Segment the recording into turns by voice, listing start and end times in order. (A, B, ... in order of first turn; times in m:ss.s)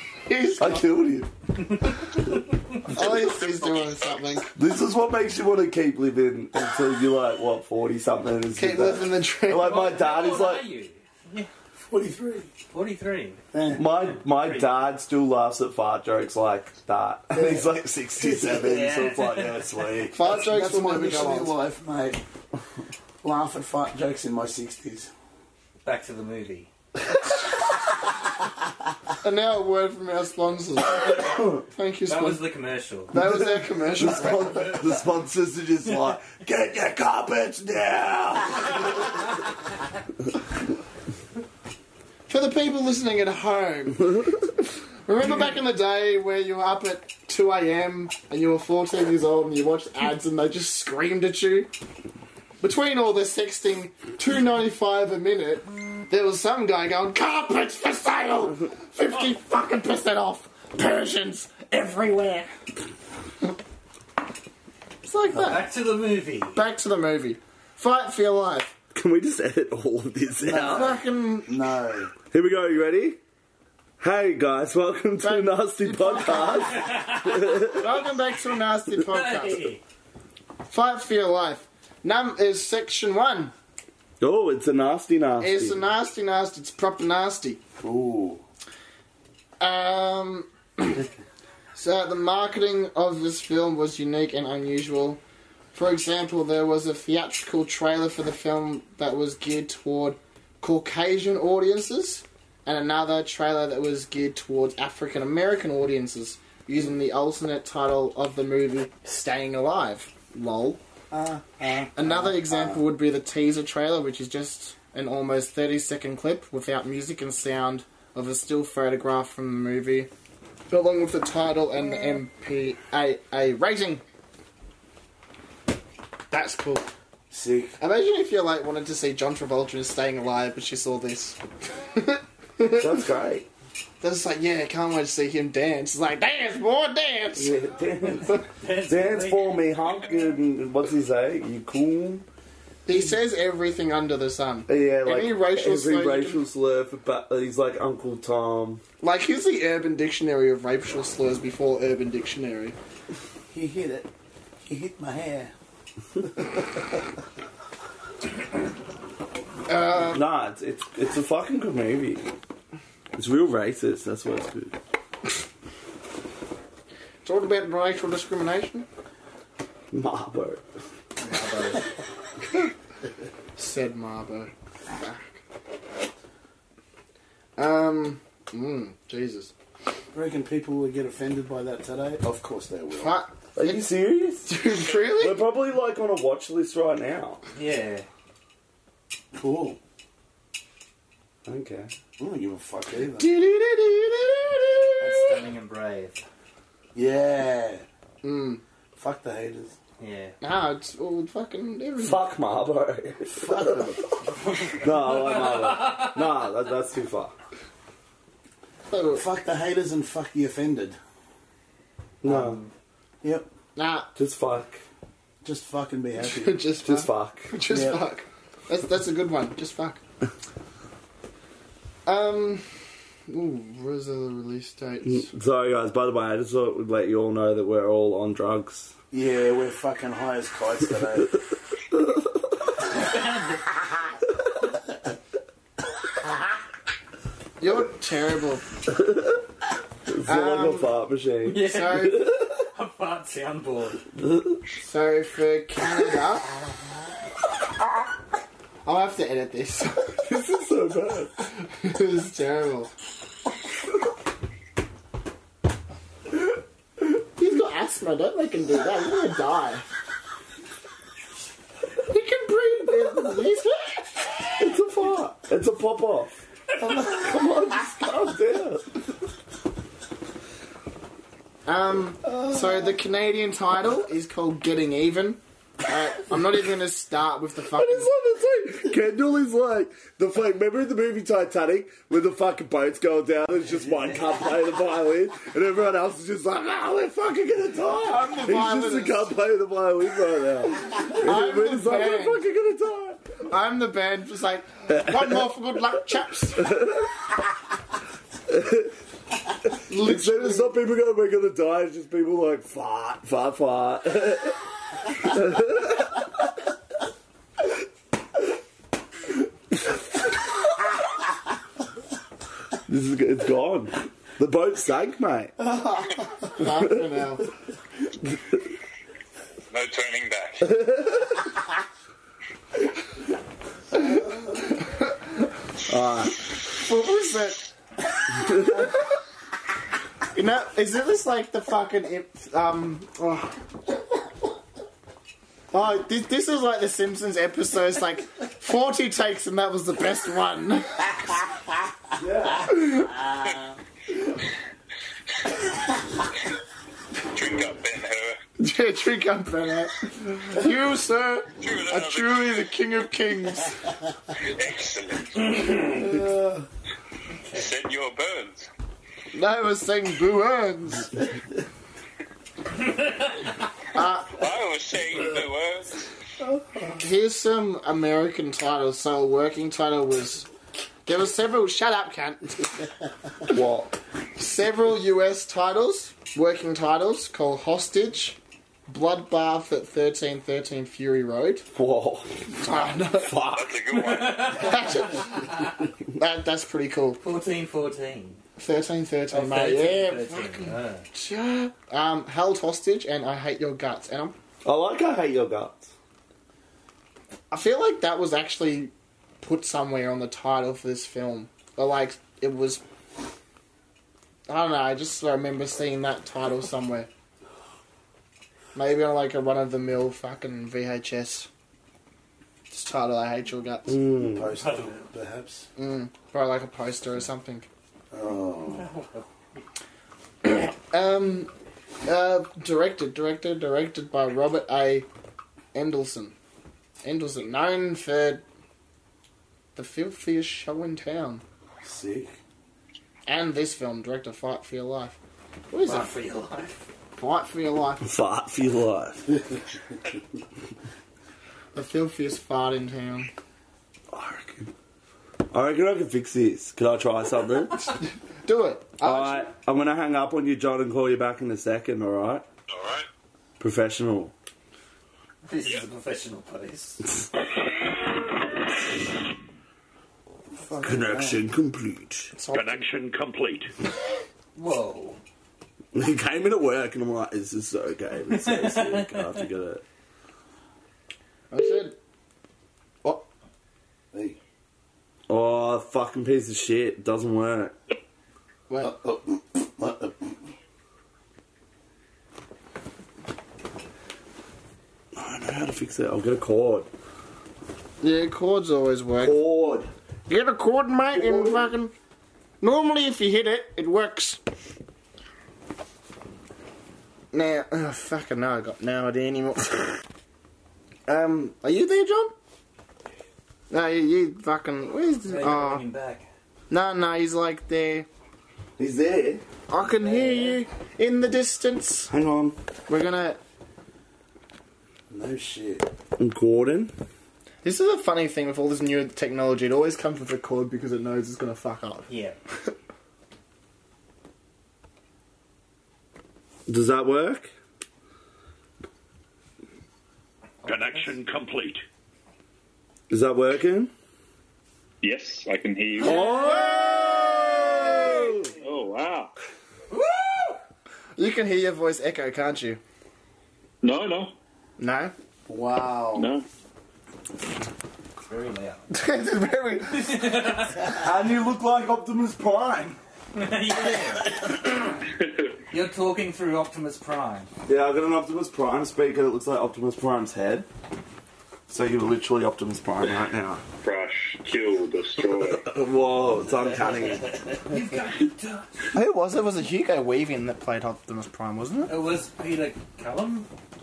0:00.3-0:00.9 A
0:00.6-0:01.3 B
0:02.9-0:04.5 A
0:04.5-0:10.7 B
0:08.6-0:09.8 A
0:09.6-0:11.5 C
0:11.8-0:12.5 D
0:12.7-0:13.4 C
0:13.5-0:13.9 D
0:13.7-0:20.2 B
0:14.2-0:14.7 C
0:17.3-0:17.7 D
0:18.5-0:19.8 C
0:20.1-0:21.6 A
0:20.2-0:22.2 D
0:23.2-0:25.1 D
0:25.8-0:26.7 C
0:29.2-0:32.5 A
0:32.1-0:33.1 C
0:33.1-0:34.8 A
0:34.0-0:38.8 B
0:42.3-0:51.7 A
0:52.6-1:02.5 A
1:05.0-1:05.7 A
1:05.3-1:06.6 C
1:06.5-1:08.8 A
1:08.9-1:11.0 B
1:10.4-1:12.1 D
1:10.6-1:11.6 A
1:12.3-1:13.2 B
1:14.0-1:18.0 B
1:15.2-1:16.9 A
1:16.6-1:17.6 C
1:17.7-1:19.7 A
1:19.0-1:19.8 C
1:20.7-1:23.5 A
1:24.2-1:25.9 B
1:25.4-1:27.6 A
1:27.8-1:28.4 D
1:29.6-1:31.1 A
1:31.8-1:35.2 A
1:35.7-1:50.8 A
1:51.1-1:52.8 D
1:52.0-2:00.1 A
2:00.7-2:04.0 A
2:06.3-2:06.9 A
2:07.3-2:07.8 D
2:07.8-2:11.4 A
2:11.9-2:13.0 A
2:12.8-2:13.5 B
2:14.0-2:17.6 A
2:17.3-2:22.3 B
2:18.6-2:19.6 C
2:22.9-2:26.4 A
2:24.7-2:28.8 B
2:29.0-2:32.8 A
2:33.5-2:34.1 D
2:34.6-2:35.5 D
2:39.7-2:40.2 A
2:40.1-2:42.2 B
2:43.2-2:44.8 B
2:47.2-2:48.9 A
2:49.9-2:50.6 B
2:51.2-2:51.8 C
2:53.6-2:55.4 A
2:57.6-2:59.5 A
3:00.1-3:03.2 D
3:02.9-3:03.9 A
3:03.6-3:07.4 B
3:04.4-3:05.4 A
3:07.6-3:08.1 C
3:09.3-3:09.8 D
3:11.5-3:11.9 B
3:12.2-3:13.4 D
3:13.2-3:15.4 A
3:15.0-3:16.2 C
3:17.0-3:17.8 D
3:18.2-3:18.6 A
3:19.0-3:19.8 D
3:20.0-3:20.4 C
3:20.4-3:22.2 A
3:22.0-3:24.0 B
3:23.3-3:24.1 D
3:24.4-3:26.2 C
3:24.6-3:27.4 B
3:28.9-3:29.3 A
3:29.1-3:31.0 D
3:32.2-3:32.6 B
3:32.3-3:32.7 C
3:33.8-3:34.1 A
3:34.2-3:34.8 B
3:35.4-3:36.7 D
3:36.2-3:40.0 A
3:36.8-3:37.5 B
3:37.7-3:38.0 D
3:42.1-3:42.7 A
3:43.3-3:45.3 A
3:45.0-3:48.9 B
3:49.1-3:51.4 D
3:52.9-3:53.6 C
3:57.6-3:58.7 A
3:58.9-3:59.4 B
4:00.1-4:02.6 B
4:00.3-4:00.9 A
4:01.4-4:02.2 C
4:01.6-4:02.3 A
4:02.7-4:04.0 C
4:04.2-4:04.6 B
4:04.8-4:06.6 A
4:08.8-4:10.2 A
4:10.2-4:11.4 B
4:11.6-4:12.9 A
4:17.0-4:19.9 A
4:22.1-4:24.1 A
4:24.6-4:28.9 B
4:31.7-4:38.1 A
4:37.7-4:53.4 B
4:43.8-4:44.2 C
4:47.9-4:49.3 A
4:51.0-4:52.4 A
4:53.5-4:56.8 A
4:54.9-4:55.4 B
4:56.6-4:57.1 B
4:58.5-4:58.9 B
4:59.9-5:00.7 A
4:59.9-5:04.6 B
5:05.2-5:06.2 B
5:12.9-5:15.6 B
5:15.7-5:17.5 A
5:19.7-5:20.7 E
5:20.6-5:21.4 B
5:24.0-5:25.2 A
5:25.9-5:26.4 B
5:26.6-5:27.7 A
5:28.4-5:28.8 B
5:30.3-5:33.6 A
5:35.7-5:41.1 A
5:42.2-5:42.7 B
5:42.7-5:43.2 A
5:47.3-5:48.4 E
5:48.6-5:54.0 A
5:51.6-5:52.7 E
5:54.4-5:55.9 E
5:56.0-5:56.6 D
5:57.3-5:57.7 C
5:57.5-5:58.7 E
5:59.3-6:01.2 A
6:03.9-6:04.5 A
6:04.3-6:06.1 E
6:07.0-6:10.5 A
6:11.1-6:12.8 A
6:13.5-6:14.0 B
6:14.4-6:21.7 A
6:21.7-6:22.5 B
6:22.5-6:23.5 A
6:23.2-6:23.9 B
6:23.5-6:25.1 E
6:23.9-6:24.9 C
6:24.5-6:25.5 A
6:26.1-6:27.2 A
6:27.2-6:28.4 C
6:28.6-6:34.4 A
6:29.3-6:31.1 C
6:34.6-6:35.9 B
6:37.5-6:42.8 A
6:44.5-6:47.1 A
6:48.7-6:51.5 A
6:52.7-6:54.1 A
6:53.9-6:54.5 B
6:54.2-6:55.7 D
6:54.6-6:55.0 C
6:55.8-6:57.7 A
6:58.1-6:58.9 D
6:58.7-6:59.2 C
7:00.4-7:01.5 A
7:02.0-7:05.1 A
7:05.7-7:06.4 A
7:07.0-7:08.4 A
7:09.8-7:11.4 A
7:11.9-7:12.3 D
7:13.3-7:15.2 A
7:15.7-7:16.1 A
7:15.8-7:16.9 C
7:17.2-7:18.1 A
7:18.0-7:19.4 B
7:21.7-7:23.3 A
7:24.1-7:24.7 B
7:25.5-7:27.9 B
7:28.4-7:29.5 A
7:29.0-7:32.4 B
7:33.6-7:34.3 B
7:35.5-7:37.0 C
7:40.6-7:41.3 A
7:40.8-7:42.3 B
7:42.4-7:42.9 A
7:42.5-7:43.7 F
7:44.6-7:45.2 C
7:45.9-7:49.8 B
7:48.3-7:49.4 C
7:51.5-7:52.0 A
7:55.3-7:57.8 B
7:58.7-7:58.9 A
7:58.8-8:00.4 D
8:05.2-8:06.9 B
8:08.0-8:09.4 A
8:09.2-8:09.9 B
8:10.3-8:11.9 A
8:11.2-8:11.7 B
8:12.6-8:14.4 A
8:17.3-8:20.0 A
8:21.1-8:22.4 A
8:23.7-8:25.9 A
8:25.3-8:26.3 C
8:26.7-8:28.1 A
8:28.8-8:29.4 B
8:29.7-8:32.1 A
8:30.0-8:30.5 C
8:32.1-8:32.6 B
8:32.9-8:33.4 A
8:35.1-8:35.9 D
8:36.2-8:37.0 B
8:37.6-8:42.1 A
8:42.1-8:42.4 C
8:46.7-8:47.5 B
8:50.6-8:51.1 C
8:50.7-8:51.8 F
8:53.1-8:53.9 B
8:55.0-8:56.2 E
8:56.0-8:58.5 B
8:56.0-8:58.4 A
8:58.6-8:59.3 E
8:59.9-9:00.6 C
9:01.2-9:02.8 A
9:03.8-9:04.3 E
9:04.8-9:05.1 A
9:05.5-9:06.2 D
9:06.2-9:06.4 E
9:08.3-9:08.9 C
9:08.9-9:10.5 A
9:09.9-9:10.9 C
9:10.9-9:13.0 B
9:13.4-9:14.5 C
9:15.7-9:17.5 C
9:17.7-9:20.7 B
9:21.7-9:23.6 B
9:23.8-9:25.7 E
9:25.3-9:27.3 B
9:27.6-9:28.9 C
9:28.9-9:32.0 A
9:31.9-9:33.5 C